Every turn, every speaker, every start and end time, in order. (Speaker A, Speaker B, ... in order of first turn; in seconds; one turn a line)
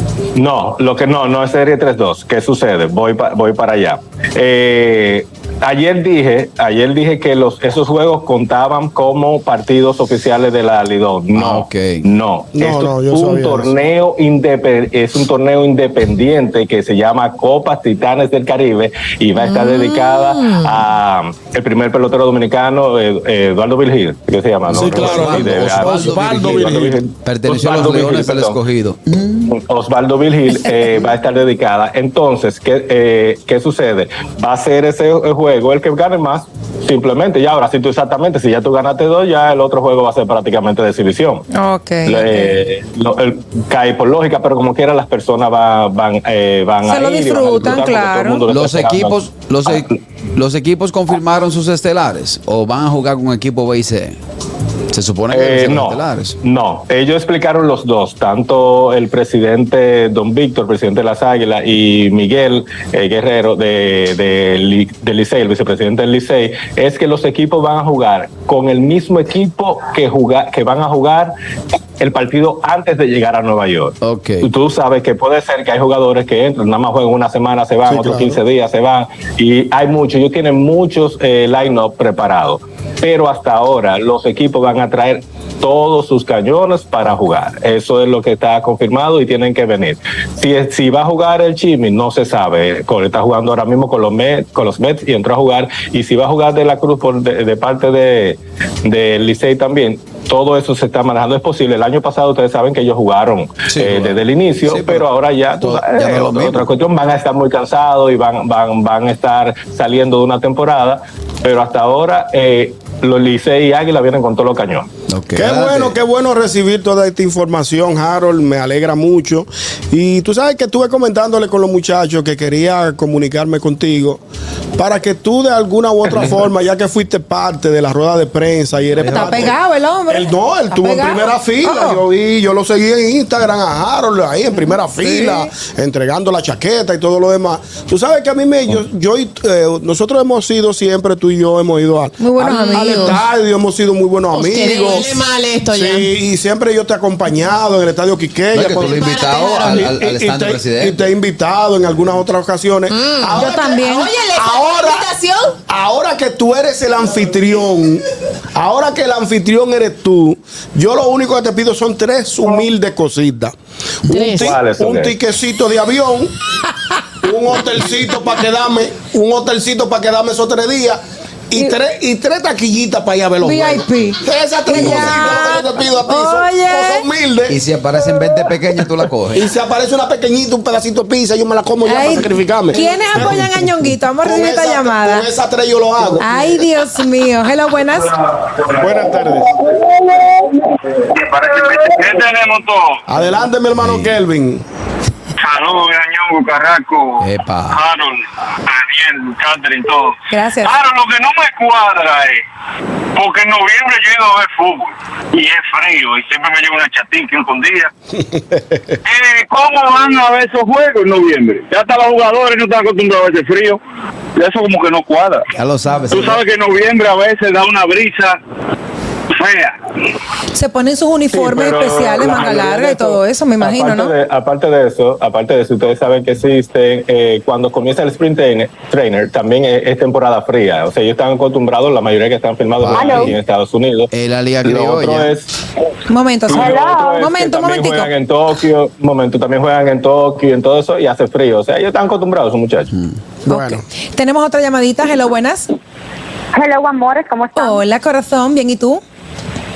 Speaker A: 0.3-28.6
Speaker B: 11.3-12.1
Speaker C: 12.5-13.7
Speaker D: 19.6-20.6
Speaker C: 24.7-27.0
Speaker B: 24.7-26.7
Speaker B: 27.2-29.5
Speaker A: 29.4-41.4
Speaker E: 41.5-42.6
Speaker A: 42.0-49.9
Speaker E: 46.8-48.4
Speaker B: 48.5-54.2
Speaker B: 54.9-56.4
Speaker A: 55.3-71.3
Speaker A: 72.0-114.9
Speaker B: 74.0-74.5
Speaker C: 77.8-78.4
Speaker B: 103.7-105.1
Speaker B: 105.6-106.7
Speaker B: 115.1-116.0
Speaker C: 115.3-124.2
Speaker C: 124.8-129.6
Speaker B: 128.9-129.5
Speaker E: 129.1-132.0
Speaker C: 130.1-145.1
Speaker E: 134.5-135.5
Speaker E: 142.2-143.2
Speaker D: 142.5-143.1
Speaker D: 144.3-146.1
Speaker C: 145.7-155.1
Speaker B: 148.5-151.0
Speaker D: 148.9-149.7
Speaker D: 152.9-155.6
Speaker E: 153.3-154.2
Speaker C: 155.7-158.0
Speaker C: 158.6-163.5
Speaker C: 164.1-166.3
Speaker D: 164.1-164.4
Speaker A: 164.3-165.2
Speaker C: 167.2-171.0
Speaker C: 171.5-177.6
Speaker E: 173.4-177.1
Speaker B: 177.5-179.4
Speaker C: 179.3-183.7
Speaker E: 181.8-185.3
Speaker C: 184.2-186.6
Speaker E: 186.2-188.2
Speaker C: 188.7-189.6
Speaker F: 191.1-193.0
Speaker C: 193.1-194.6
Speaker B: 193.8-194.2
Speaker F: 195.4-197.2
Speaker B: 197.2-197.8
Speaker F: 197.7-202.4
Speaker E: 200.3-200.8
Speaker F: 203.1-207.9
Speaker C: 208.2-208.9
Speaker F: 209.1-213.8
Speaker F: 214.3-215.5
Speaker B: 215.6-216.4
Speaker F: 216.1-218.4
Speaker F: 219.3-219.7
Speaker E: 220.5-224.1
Speaker A: 221.3-234.1
Speaker B: 232.8-233.3
Speaker G: 232.9-233.3
Speaker B: 234.1-235.4
Speaker A: 234.6-235.5
Speaker E: 236.1-238.1
Speaker A: 236.5-242.9
Speaker G: 236.5-237.0
Speaker C: 243.5-243.8
Speaker E: 243.5-245.7
Speaker G: 246.5-247.8
Speaker E: 247.5-249.0